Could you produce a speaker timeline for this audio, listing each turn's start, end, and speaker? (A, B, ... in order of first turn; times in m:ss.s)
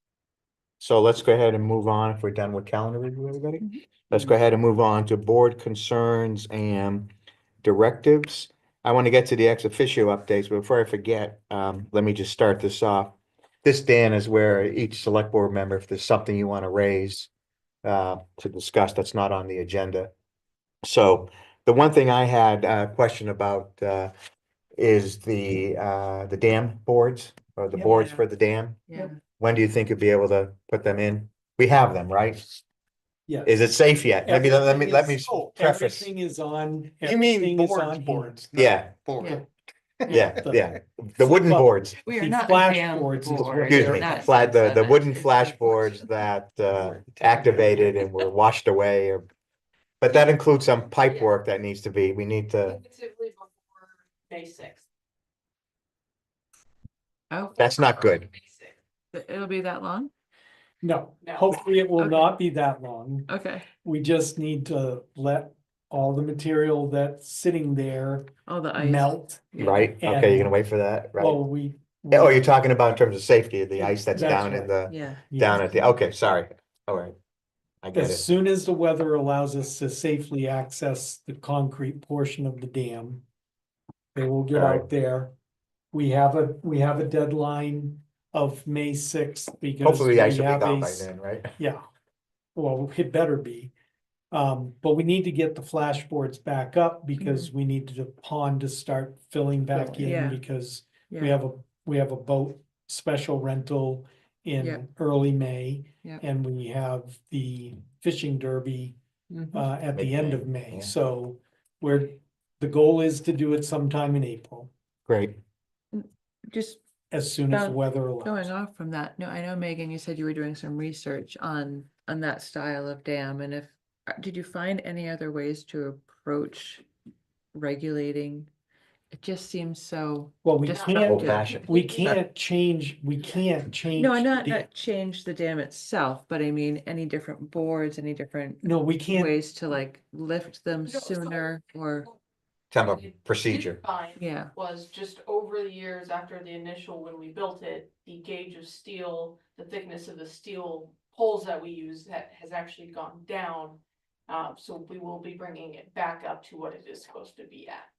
0:00.8-0:07.1 A
0:07.6-0:17.3 A
0:17.8-0:20.1 A
0:20.8-0:24.1 A
0:24.8-0:28.8 A
0:27.8-0:28.3 B
0:28.9-0:29.2 B
0:29.4-0:32.5 A
0:33.3-0:33.6 C
0:33.5-0:36.1 A
0:34.2-0:38.5 C
0:37.0-0:39.4 D
0:38.6-0:38.9 A
0:40.1-0:42.0 A
0:40.2-0:44.3 C
0:42.0-0:46.1 B
0:43.7-0:49.2 A
0:47.4-0:47.7 D
0:50.0-0:52.8 A
0:51.1-0:51.3 E
0:52.7-0:54.8 E
0:57.4-0:58.8 E
0:57.6-0:58.3 A
0:59.1-1:00.1 B
1:00.8-1:03.3 C
1:01.2-1:01.6 E
1:02.0-1:02.4 B
1:03.3-1:03.6 B
1:03.8-1:10.6 C
1:08.5-1:09.9 B
1:09.6-1:11.4 A
1:11.2-1:12.5 C
1:12.1-1:17.2 A
1:13.8-1:14.7 C
1:14.1-1:15.9 B
1:15.3-1:15.7 C
1:17.8-1:18.2 A
1:17.9-1:23.2 C
1:24.2-1:25.3 C
1:24.6-1:24.9 A
1:25.9-1:31.8 C
1:29.8-1:31.6 A
1:32.6-1:33.7 C
1:34.3-1:49.0 C
1:37.2-1:37.5 B
1:39.7-1:40.4 B
1:41.1-1:41.4 B
1:49.5-1:54.7 C
1:50.0-1:50.9 A
1:55.1-1:55.4 A
1:55.9-1:56.8 B
1:57.1-1:58.5 C
1:57.5-2:06.9 B
2:07.5-2:08.5 B
2:09.1-2:11.5 B
2:10.4-2:14.7 C
2:10.7-2:12.1 E
2:11.0-2:12.2 A
2:13.9-2:22.1 B
2:18.6-2:19.3 C
2:20.9-2:21.4 E
2:22.7-2:23.8 A
2:23.5-2:37.9 E
2:24.2-2:24.5 B